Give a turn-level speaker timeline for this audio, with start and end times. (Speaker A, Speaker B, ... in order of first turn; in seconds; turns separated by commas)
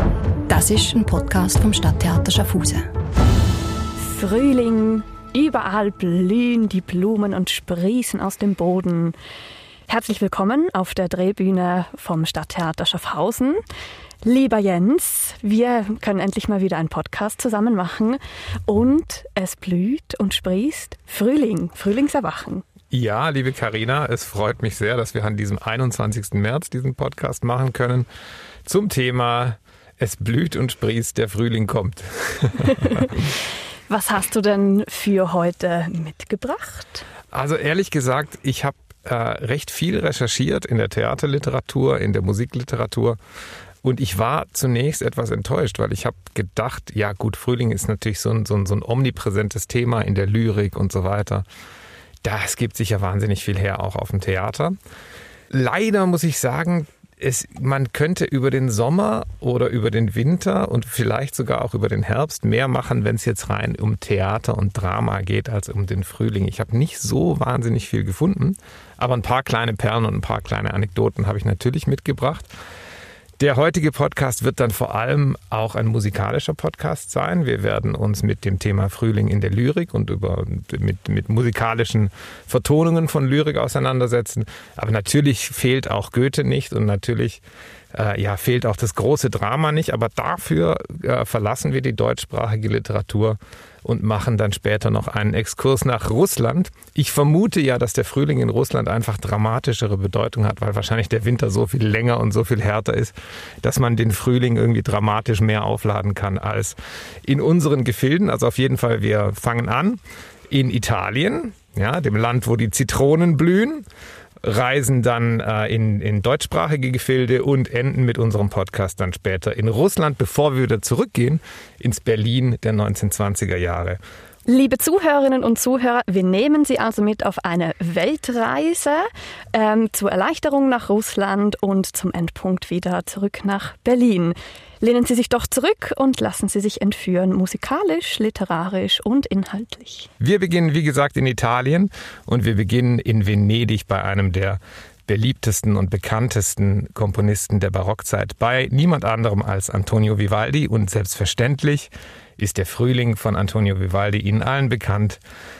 Speaker A: 0.5-2.9, Speaker B: 4.0-9.2, Speaker B: 9.9-13.6, Speaker B: 14.2-22.6, Speaker C: 22.9-28.1, Speaker C: 28.6-33.1, Speaker B: 32.8-33.1, Speaker B: 33.9-37.0, Speaker C: 37.3-43.2, Speaker C: 43.8-51.4, Speaker C: 52.2-54.8, Speaker C: 55.5-72.5, Speaker C: 73.4-87.4, Speaker C: 87.9-113.8, Speaker C: 114.4-124.0, Speaker B: 124.5-140.1, Speaker C: 140.2-155.2